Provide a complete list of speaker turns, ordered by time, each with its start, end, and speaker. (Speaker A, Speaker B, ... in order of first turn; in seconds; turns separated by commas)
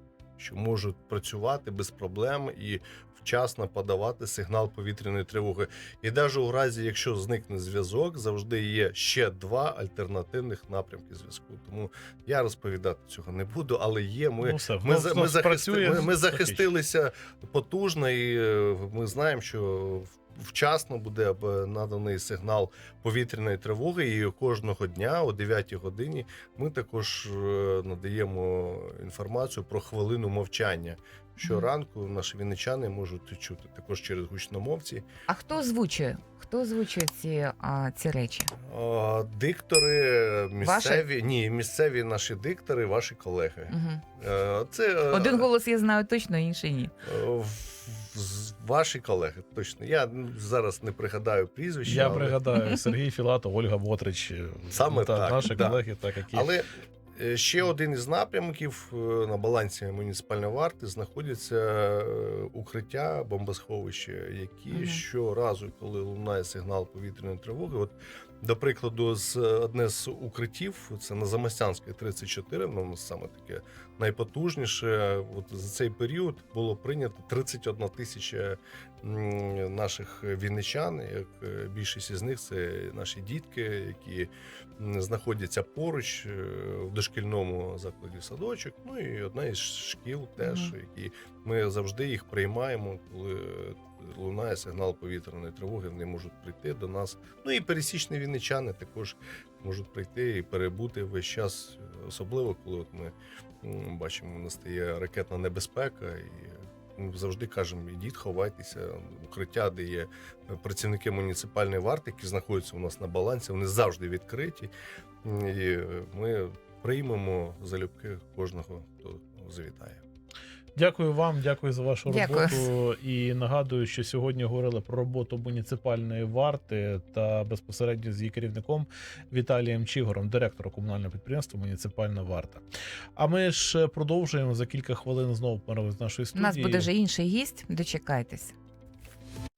Speaker A: 0.4-35.0, Speaker B: 14.4-16.6, Speaker C: 31.4-31.7, Speaker C: 35.3-38.5, Speaker A: 38.6-45.5, Speaker C: 40.6-41.0, Speaker C: 43.7-44.0, Speaker C: 45.1-46.9, Speaker A: 47.0-52.4, Speaker B: 51.8-56.5, Speaker C: 52.5-52.8, Speaker A: 54.7-114.7, Speaker C: 64.7-65.0, Speaker C: 90.4-90.7, Speaker A: 115.2-120.0, Speaker B: 120.7-132.6, Speaker C: 122.1-122.7, Speaker B: 133.2-136.9, Speaker C: 136.3-138.5